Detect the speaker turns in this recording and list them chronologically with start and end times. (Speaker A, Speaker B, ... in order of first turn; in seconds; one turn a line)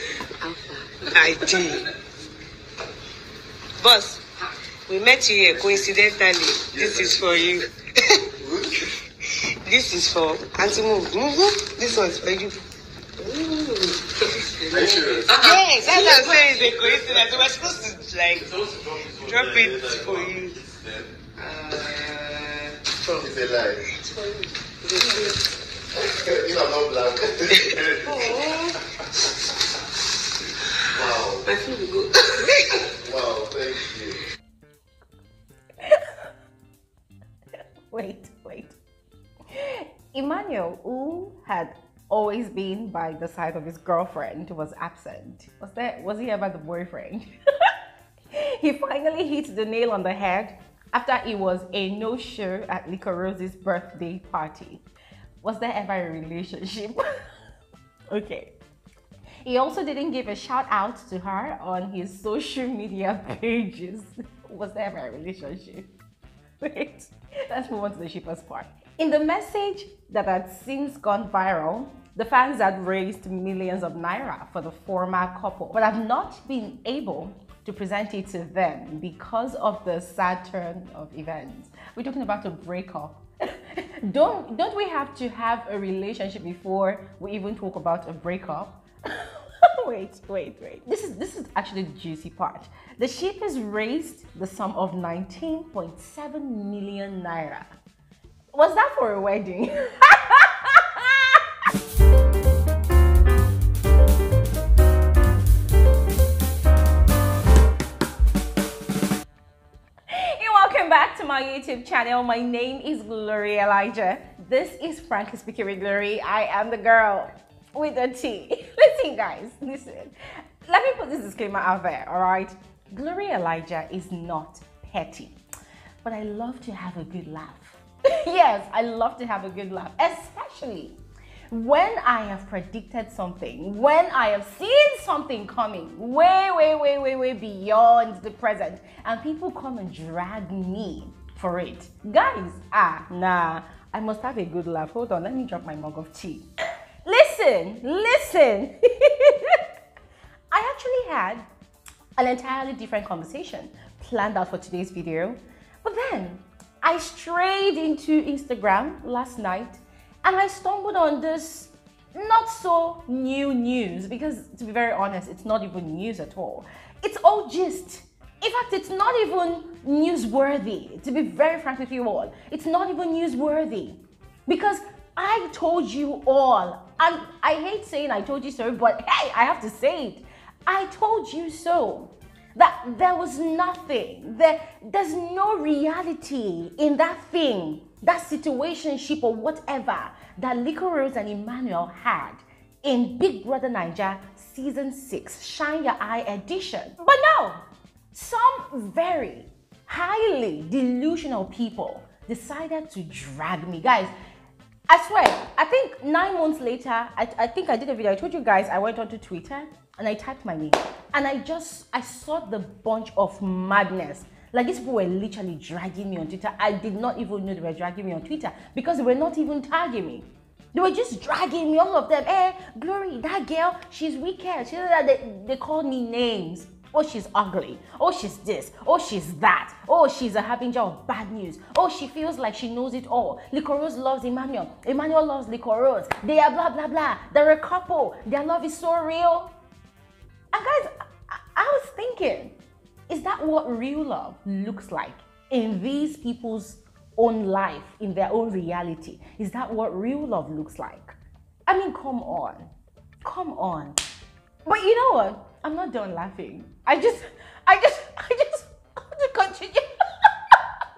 Speaker A: 0.4-1.9
Speaker A: 3.8-4.2
Speaker A: 4.9-8.2
Speaker A: 9.6-12.6
Speaker A: 13.2-20.6
Speaker B: 14.7-15.3
Speaker B: 18.6-21.1
Speaker A: 21.4-23.4
Speaker B: 23.2-23.8
Speaker A: 23.9-25.4
Speaker B: 26.2-28.2
Speaker A: 27.6-28.7
Speaker B: 30.9-31.4
Speaker A: 31.4-32.9
Speaker B: 33.0-34.2
Speaker C: 35.8-36.1
Speaker C: 37.9-38.8
Speaker C: 39.5-47.8
Speaker C: 48.3-54.8
Speaker C: 55.4-57.0
Speaker C: 58.1-58.5
Speaker C: 59.4-65.9
Speaker C: 66.6-97.7
Speaker C: 98.5-101.4
Speaker C: 110.1-125.3
Speaker C: 126.0-131.0
Speaker C: 131.5-146.4
Speaker C: 147.0-149.7
Speaker C: 150.5-151.4
Speaker C: 152.2-204.1
Speaker C: 204.9-239.5
Speaker C: 240.5-242.6
Speaker C: 243.1-251.1
Speaker C: 251.7-252.7
Speaker C: 253.2-254.0
Speaker C: 254.6-260.6